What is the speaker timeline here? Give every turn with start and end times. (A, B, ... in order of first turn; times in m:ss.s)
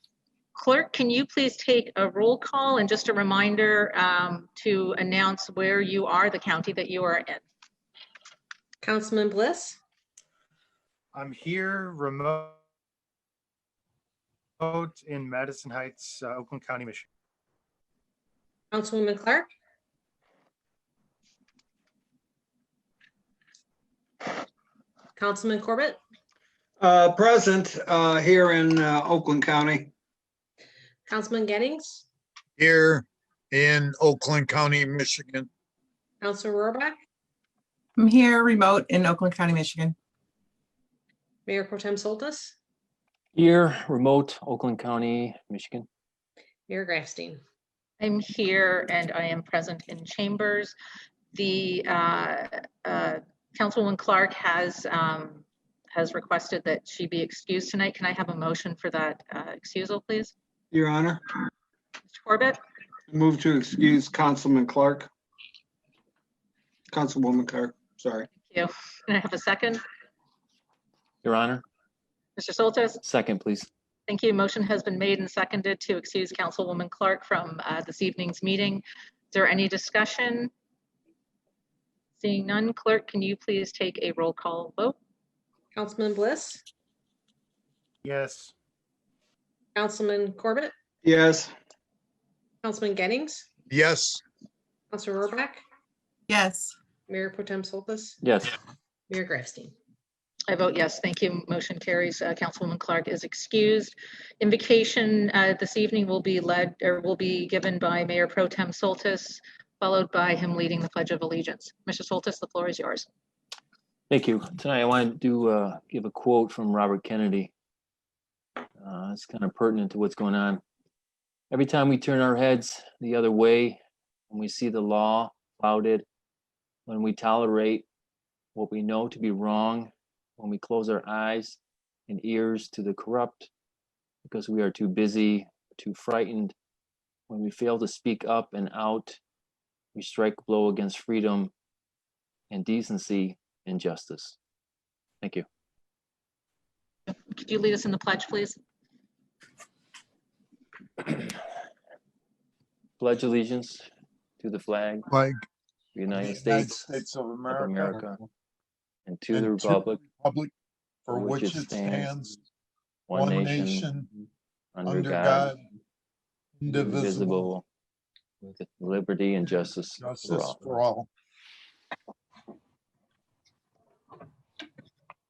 0:00.5-0:07.4 A
0:08.8-0:09.8 B
0:11.1-0:12.6 C
0:14.6-0:17.1 C
0:18.7-0:19.5 B
0:25.2-0:26.0 B
0:26.8-0:29.9 D
0:31.1-0:32.0 B
0:32.6-0:35.5 E
0:36.2-0:37.0 B
0:38.0-0:40.0 F
0:41.4-0:42.5 B
0:43.3-0:45.9 G
0:46.7-0:47.4 B
0:48.0-0:50.7 A
0:51.3-1:00.3 A
1:00.7-1:01.2 D
1:02.1-1:02.6 A
1:03.1-1:05.1 D
1:06.9-1:08.3 D
1:08.5-1:09.8 A
1:11.2-1:11.6 G
1:12.4-1:13.0 A
1:13.0-1:13.7 G
1:14.1-1:20.5 A
1:22.2-1:25.0 A
1:25.7-1:26.6 B
1:28.0-1:28.5 C
1:29.7-1:30.7 B
1:31.0-1:31.5 D
1:32.6-1:33.5 B
1:33.7-1:34.2 E
1:34.9-1:35.6 B
1:36.3-1:36.8 F
1:37.1-1:38.2 B
1:38.2-1:38.5 G
1:39.1-1:39.7 B
1:40.5-1:53.0 A
1:54.1-1:57.5 G
1:58.8-2:00.6 G
2:01.5-2:03.8 G
2:04.3-2:06.0 G
2:06.9-2:07.8 G
2:08.5-2:13.5 G
2:14.2-2:16.5 G
2:17.3-2:19.2 G
2:19.9-2:21.5 G
2:22.5-2:24.4 G
2:25.2-2:25.4 G
2:27.3-2:28.6 A
2:33.0-2:33.8 G
2:34.4-2:35.1 G
2:35.1-2:35.4 E
2:35.9-2:38.2 G
2:36.2-2:38.1 E
2:39.0-2:40.0 G
2:39.3-2:40.5 E
2:41.0-2:42.4 E
2:41.1-2:42.2 G
2:43.1-2:43.9 G
2:43.1-2:44.1 E
2:44.7-2:45.5 G
2:44.8-2:45.6 E
2:46.6-2:47.4 E
2:46.7-2:47.6 G
2:48.4-2:50.8 G
2:50.0-2:51.1 E